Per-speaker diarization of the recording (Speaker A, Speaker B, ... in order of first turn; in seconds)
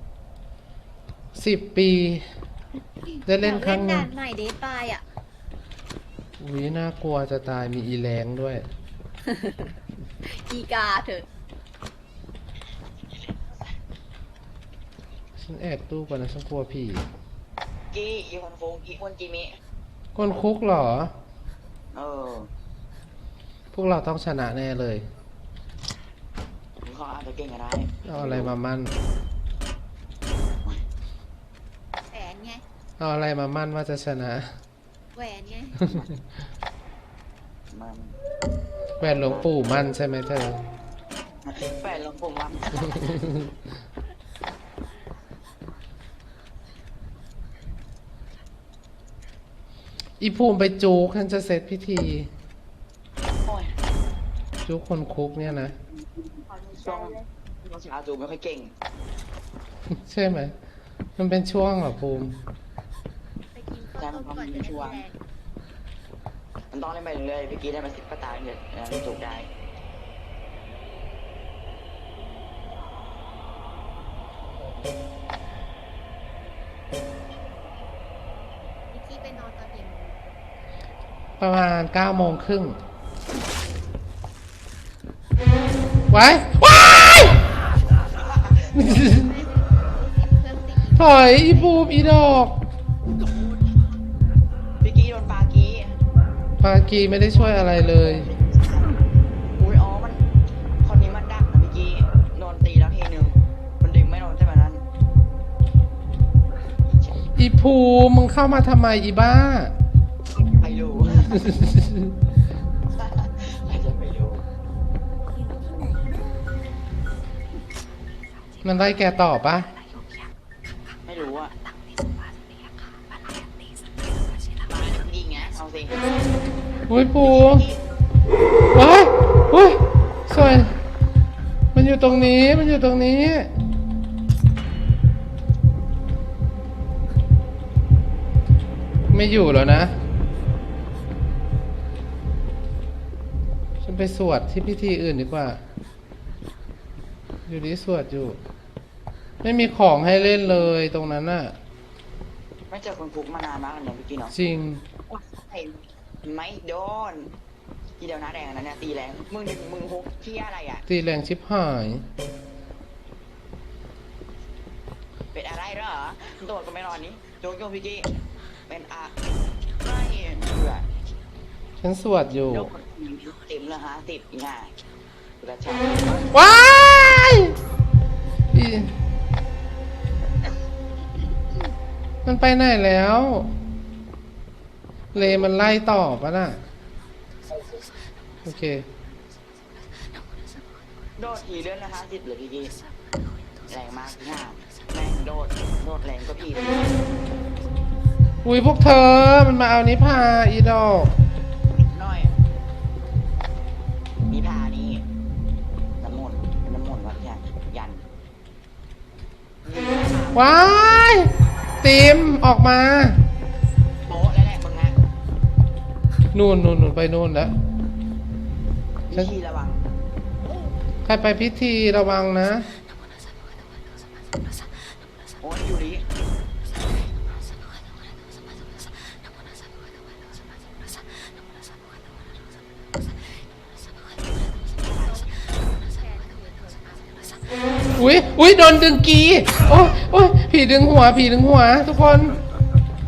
Speaker A: 1.4-2.3, 3.3-4.1, 6.4-8.6, 15.4-17.1, 20.2-21.1, 23.7-25.1, 28.1-28.9, 33.0-34.5, 39.0-40.6, 50.2-52.3, 54.7-55.8, 59.9-60.5, 61.2-62.4, 81.4-82.8, 86.1-87.4, 88.8-89.3, 91.0-92.6, 96.6-98.3, 107.4-109.7, 111.4-112.1, 118.6-119.8, 126.9-127.7, 128.7-130.7, 131.8-133.5, 139.1-139.9, 143.8-145.6, 147.5-148.4, 149.4-151.6, 154.3-154.8, 160.9-162.0, 171.8-172.7, 176.3-177.5, 178.5-178.9, 182.2-183.5, 185.1-186.6, 188.4-188.9, 198.4-201.1, 210.3-211.3, 211.8-213.2, 216.3-217.5, 221.1-222.7, 238.0-242.4
Speaker B: 3.1-5.0, 9.2-9.7, 10.2-11.3, 32.1-32.6, 35.1-35.9, 56.5-57.3, 63.5-65.2, 78.9-80.3, 88.7-92.0, 234.8-237.4
Speaker C: 13.0-13.8, 17.9-19.6, 21.9-22.5, 26.8-28.5, 37.7-38.2, 39.1-39.5, 41.5-43.2, 53.5-53.7, 55.5-58.7, 64.0-65.0, 66.7-69.5, 88.2-88.8, 94.8-96.0, 97.3-98.9, 99.6-100.2, 100.8-104.8, 106.9-107.3, 110.3-111.5, 113.0-114.4, 121.1-121.6, 124.7-126.0, 127.2-127.8, 150.0-150.8, 152.7-154.3, 155.1-157.3, 158.0-160.9, 165.3-168.1, 168.7-169.2, 169.8-170.9, 172.5-174.7, 175.4-176.3, 185.2-185.5, 191.2-192.8, 193.7-197.0, 201.8-202.4, 204.3-205.1, 206.0-208.0, 209.7-211.1, 214.1-215.0, 219.1-219.8, 225.4-226.0, 234.8-235.2